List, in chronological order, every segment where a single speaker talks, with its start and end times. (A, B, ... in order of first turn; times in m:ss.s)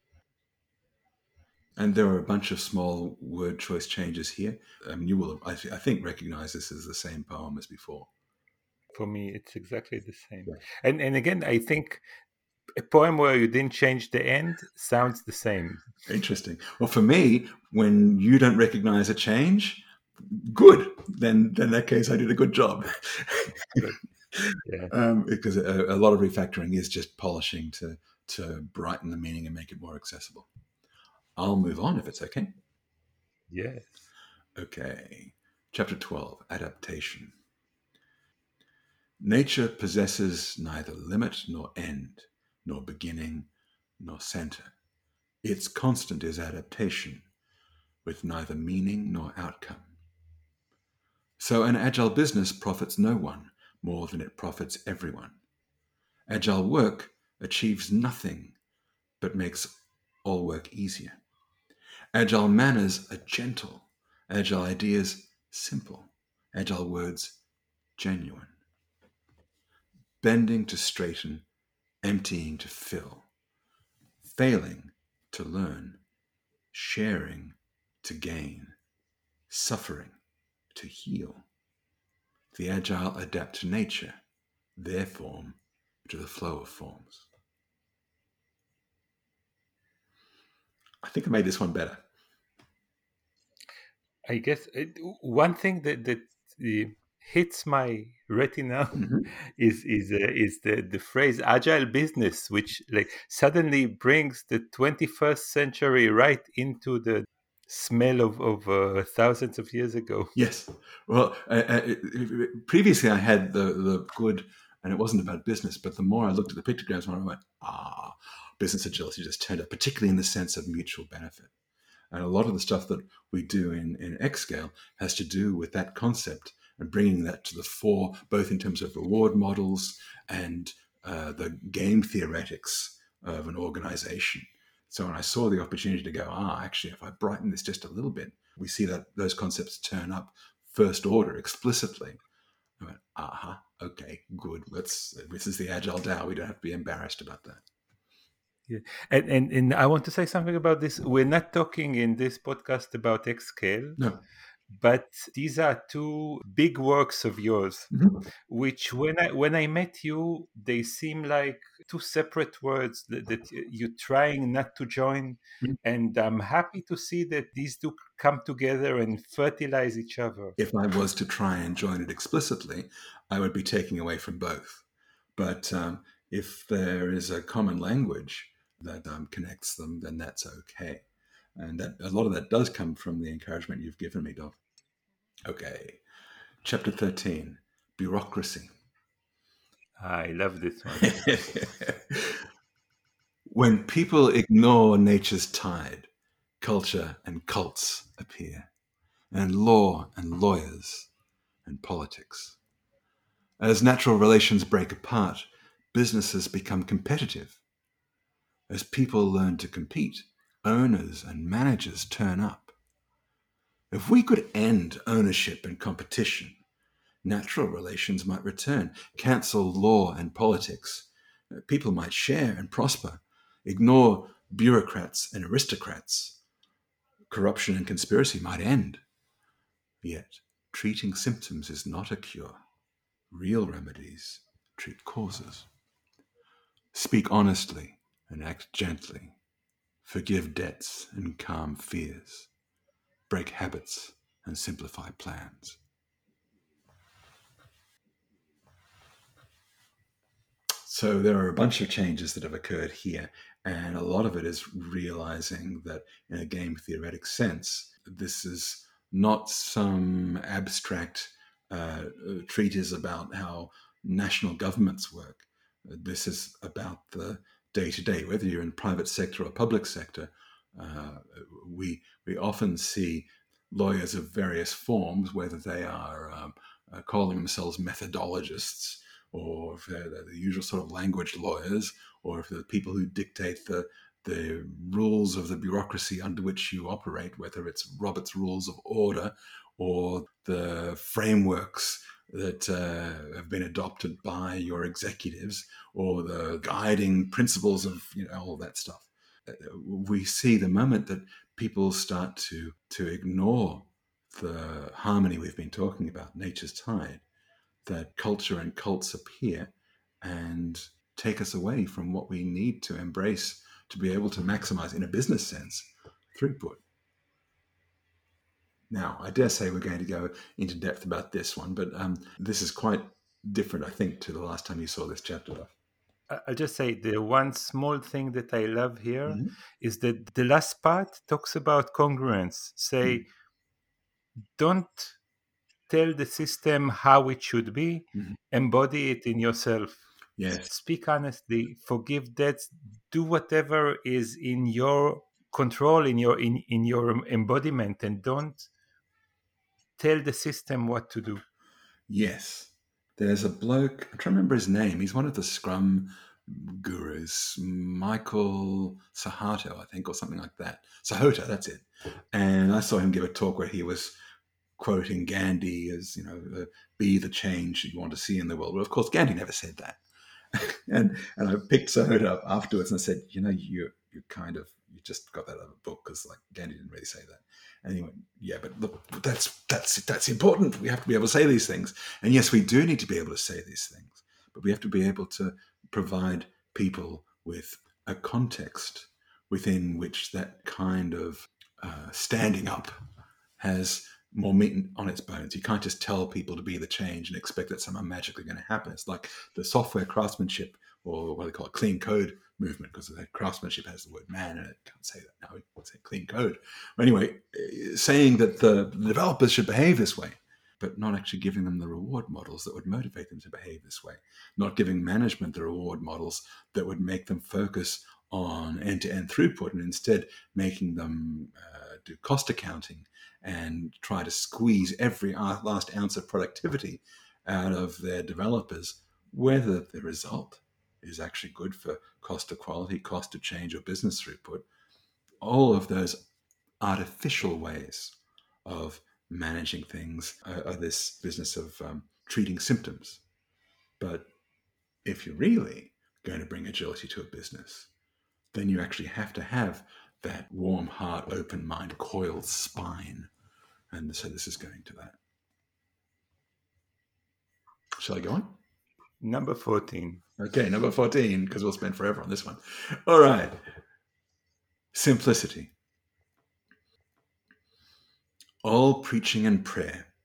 0:01.8-0:08.1 A
0:08.9-0:12.0 B
0:12.8-0:15.8 B
0:16.1-0:30.5 A
0:24.6-0:24.9 B
0:31.4-0:32.5 A
0:33.5-0:34.0 B
0:34.6-0:37.3 A
0:39.2-0:44.7 A
0:45.4-0:47.3 A
0:48.0-0:49.9 A
0:51.4-0:55.4 A
0:56.3-0:58.6 A
0:59.2-1:01.2 A
1:02.1-1:07.4 A
1:08.0-1:08.6 A
1:10.2-1:11.4 A
1:12.0-1:13.3 A
1:14.2-1:16.0 A
1:16.7-1:18.8 A
1:19.5-1:20.2 A
1:20.7-1:21.4 A
1:22.5-1:24.2 A
1:24.8-1:27.3 A
1:31.0-1:32.0 A
1:34.3-1:50.3 B
1:39.0-1:39.3 A
1:50.4-2:01.5 A
2:02.1-2:22.2 A
2:22.8-2:27.6 A
2:28.7-2:34.0 B
2:34.8-2:37.9 B
2:37.9-2:38.2 A
2:38.5-2:50.6 B
2:50.6-2:54.8 A
2:55.4-3:04.6 A
3:05.5-3:06.0 A
3:06.6-3:08.7 A
3:10.0-3:11.2 B
3:11.0-3:12.4 A
3:13.5-3:16.1 A
3:16.6-3:18.7 A
3:19.3-3:21.1 A
3:21.6-3:22.6 A
3:23.6-3:27.6 A
3:28.7-3:32.7 A
3:33.9-3:36.6 A
3:37.2-3:46.4 A
3:47.3-3:49.0 A
3:50.0-3:52.6 A
3:53.3-3:55.7 A
3:56.9-3:59.4 A
4:00.0-4:02.5 A
4:03.3-4:05.8 A
4:10.8-5:07.2 A
5:07.9-5:16.8 A
5:18.9-5:25.7 A
5:26.3-5:33.3 B
5:29.3-5:29.5 A
5:34.6-5:35.2 B
5:35.9-5:40.0 B
5:40.4-5:40.7 A
5:40.6-5:48.7 B
5:50.0-5:51.4 B
5:52.1-6:04.1 A
6:04.8-6:10.0 A
6:10.5-6:32.9 A
6:33.6-7:14.6 A
7:15.4-7:16.3 A
7:16.8-7:23.2 A
7:24.0-7:24.3 A
7:25.0-7:27.9 A
7:28.5-7:33.3 A
7:33.9-7:35.2 A
7:38.0-7:38.6 A
7:39.2-7:40.2 B
7:40.4-7:43.6 A
7:44.9-7:45.7 A
7:48.6-7:50.1 A